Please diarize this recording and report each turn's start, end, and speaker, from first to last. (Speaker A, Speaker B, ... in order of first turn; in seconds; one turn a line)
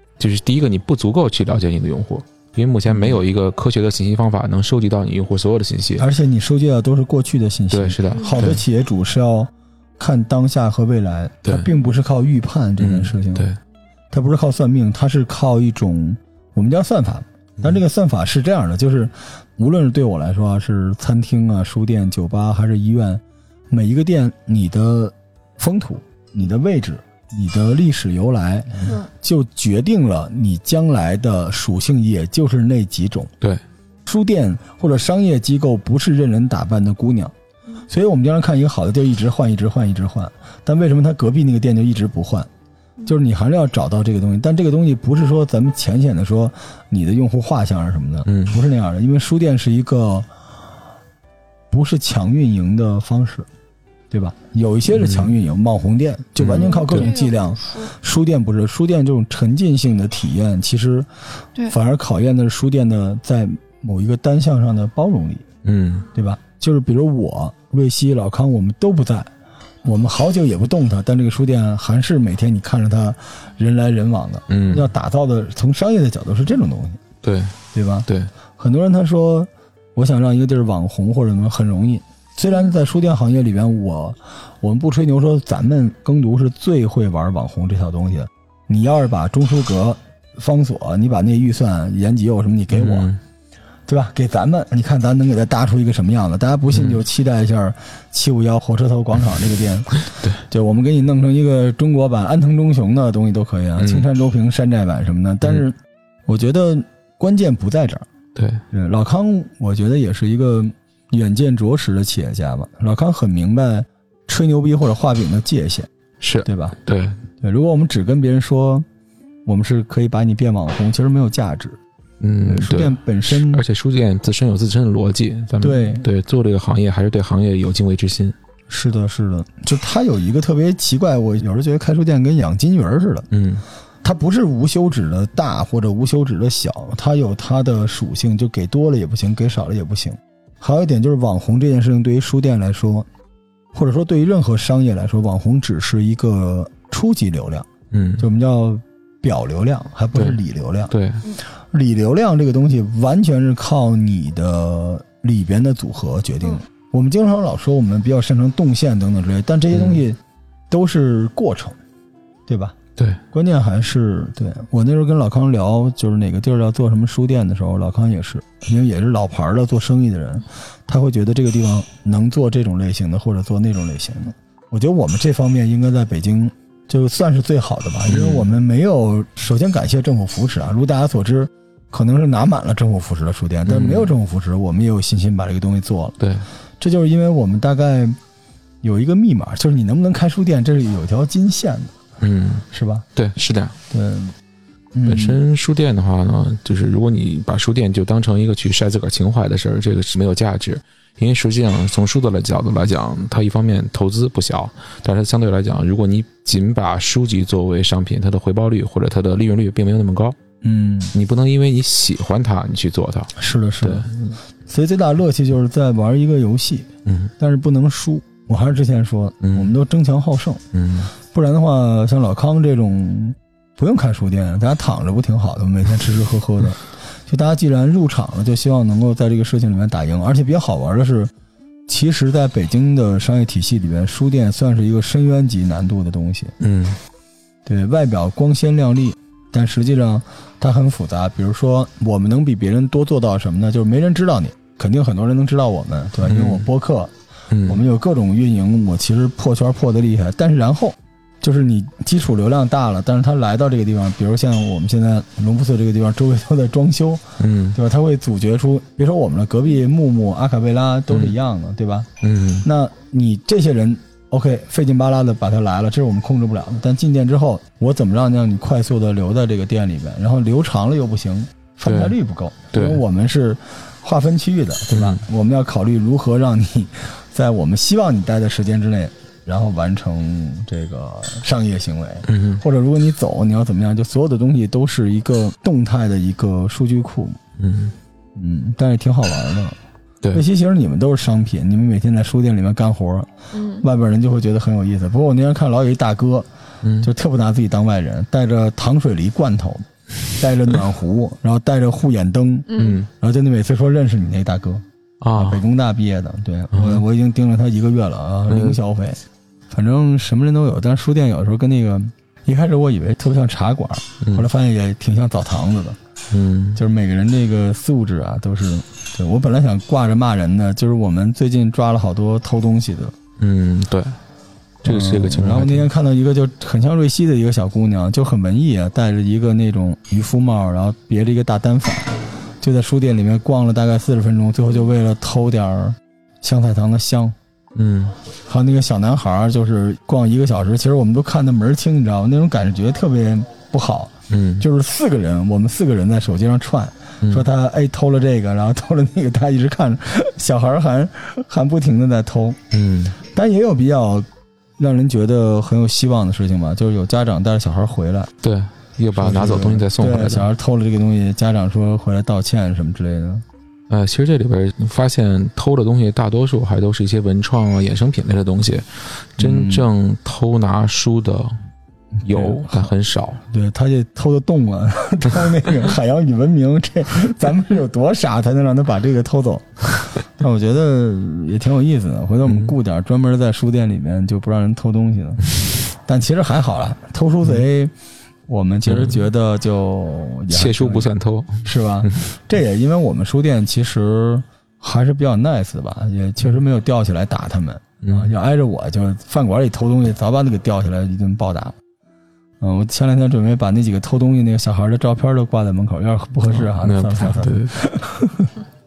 Speaker A: 0.2-6.1
Speaker B: 2.9-3.2
Speaker B: 6.0-13.5
Speaker A: 7.7-8.6
Speaker C: 8.2-8.4
Speaker A: 11.4-11.7
Speaker A: 12.8-13.6
Speaker B: 14.1-33.3
Speaker B: 34.1-37.3
Speaker B: 37.9-42.5
Speaker B: 43.1-50.3
Speaker A: 48.3-48.6
Speaker B: 51.7-53.5
Speaker B: 54.1-61.1
Speaker A: 54.9-55.3
Speaker A: 56.4-57.1
Speaker C: 56.5-57.9
Speaker B: 61.7-65.5
Speaker A: 65.6-66.1
Speaker B: 66.1-69.3
Speaker B: 69.8-77.0
Speaker A: 74.5-74.9
Speaker A: 77.2-77.5
Speaker B: 77.7-93.1
Speaker A: 92.7-93.2
Speaker B: 93.9-108.1
Speaker A: 96.7-97.0
Speaker A: 103.8-104.1
Speaker A: 108.3-108.6
Speaker B: 108.7-115.9
Speaker A: 116.2-117.2
Speaker B: 116.4-116.8
Speaker B: 117.4-118.9
Speaker B: 119.5-121.8
Speaker A: 122.2-128.3
Speaker B: 122.4-123.6
Speaker B: 125.6-126.0
Speaker B: 128.7-133.3
Speaker A: 133.3-133.6
Speaker B: 134.0-143.1
Speaker B: 143.7-147.7
Speaker A: 147.9-148.3
Speaker B: 148.2-150.9
Speaker A: 150.9-151.2
Speaker B: 151.7-160.2
Speaker A: 159.7-160.0
Speaker B: 160.7-161.8
Speaker B: 162.5-162.8
Speaker B: 163.3-186.2
Speaker A: 178.1-178.5
Speaker A: 183.7-184.1
Speaker A: 186.2-186.5
Speaker B: 186.8-188.2
Speaker B: 188.8-191.9
Speaker A: 192.2-193.8
Speaker B: 192.7-193.1
Speaker B: 193.9-194.3
Speaker B: 194.9-195.4
Speaker A: 195.1-210.4
Speaker B: 210.6-211.1
Speaker A: 211.1-214.4
Speaker B: 213.4-214.1
Speaker B: 214.7-220.6
Speaker A: 217.1-217.3
Speaker A: 219.4-219.7
Speaker A: 220.7-221.1
Speaker B: 221.3-231.3
Speaker B: 231.9-236.5
Speaker A: 236.6-237.0
Speaker B: 237.7-247.1
Speaker A: 246.2-246.7
Speaker A: 247.5-247.8
Speaker B: 247.7-262.1
Speaker A: 257.4-257.8
Speaker A: 262.2-262.7
Speaker B: 262.6-287.4
Speaker A: 271.9-272.2
Speaker A: 272.7-273.0
Speaker A: 274.9-275.2
Speaker A: 282.3-282.6
Speaker A: 287.6-287.9
Speaker B: 288.4-289.8
Speaker B: 290.3-293.3
Speaker C: 293.5-293.9
Speaker B: 293.8-296.5
Speaker A: 296.8-297.1
Speaker B: 297.0-299.9
Speaker B: 300.4-304.8
Speaker C: 302.7-303.0
Speaker A: 302.8-303.1
Speaker A: 305.2-305.6
Speaker B: 305.4-316.0
Speaker A: 306.7-307.0
Speaker A: 308.5-308.8
Speaker A: 314.2-314.5
Speaker A: 316.3-316.8
Speaker B: 316.8-323.1
Speaker A: 323.4-324.2
Speaker A: 324.8-325.9
Speaker B: 324.8-337.4
Speaker A: 337.8-338.2
Speaker B: 338.5-352.6
Speaker A: 344.3-344.6
Speaker A: 352.7-353.2
Speaker B: 353.2-354.3
Speaker B: 354.8-358.3
Speaker A: 358.4-360.5
Speaker B: 359.1-363.4
Speaker A: 363.9-371.6
Speaker B: 369.4-369.9
Speaker B: 372.2-372.9
Speaker A: 372.2-373.4
Speaker B: 373.5-387.9
Speaker A: 382.5-382.7
Speaker B: 388.5-391.1
Speaker A: 388.9-389.2
Speaker A: 390.5-392.2
Speaker B: 391.6-401.8
Speaker A: 398.0-398.3
Speaker B: 402.6-408.5
Speaker A: 406.5-407.8